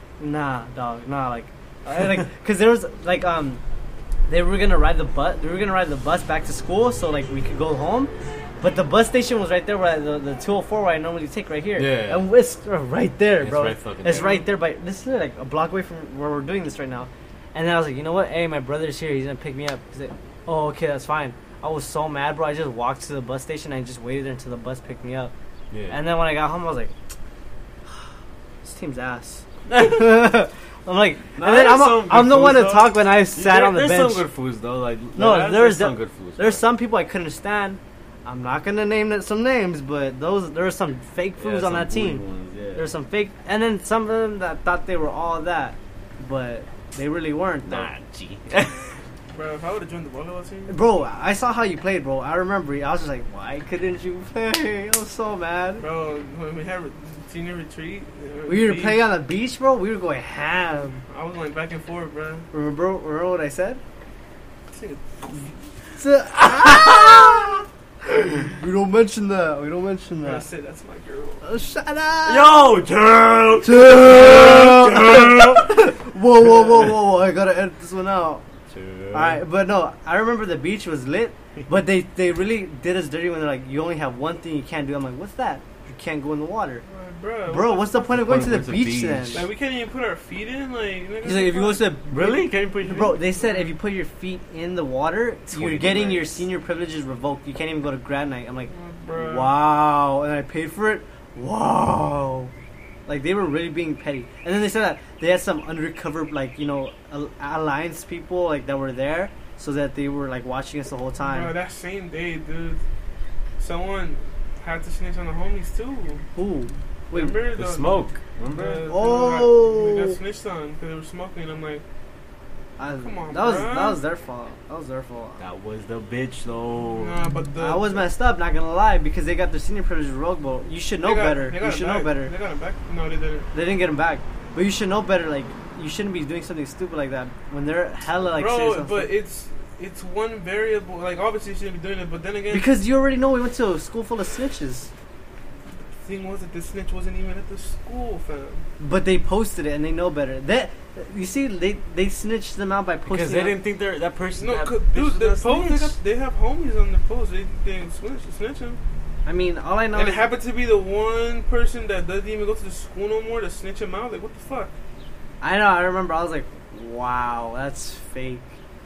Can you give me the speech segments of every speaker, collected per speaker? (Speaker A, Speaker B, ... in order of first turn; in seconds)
Speaker A: 0.2-3.6, 4.3-25.3, 25.9-26.9, 28.6-34.3, 35.1-42.2, 42.8-47.9, 50.7-55.8, 58.5-61.0, 62.5-63.8, 66.0-67.6, 68.2-70.5, 71.4-72.6, 73.6-78.4, 79.1-86.8, 87.5-89.4, 91.2-102.5, 103.1-111.5, 116.4-117.4, 118.9-120.2, 122.8-125.4, 127.6-132.3, 133.5-139.1, 142.5-144.9, 148.8-153.6, 159.3-160.3, 165.4-168.4
Speaker B: 11.8-12.3, 13.4-14.4, 25.7-26.0, 29.7-30.1, 31.4-36.6, 41.4-42.9, 47.6-48.9, 66.4-67.5, 72.2-75.8, 78.7-79.4, 88.1-89.5, 92.1-93.2, 95.5-96.4, 117.6-118.8, 125.4-127.2, 153.1-156.0
Speaker C: 49.3-50.8, 55.8-59.0, 61.1-62.5, 64.7-65.5, 70.2-71.4, 86.9-88.1, 89.3-91.9, 92.9-93.7, 98.7-99.5, 111.2-112.8, 113.6-116.2, 117.1-121.8, 123.0-124.0, 127.0-128.1, 131.0-133.5, 138.3-142.7, 146.0-148.7, 154.4-158.8, 159.9-164.7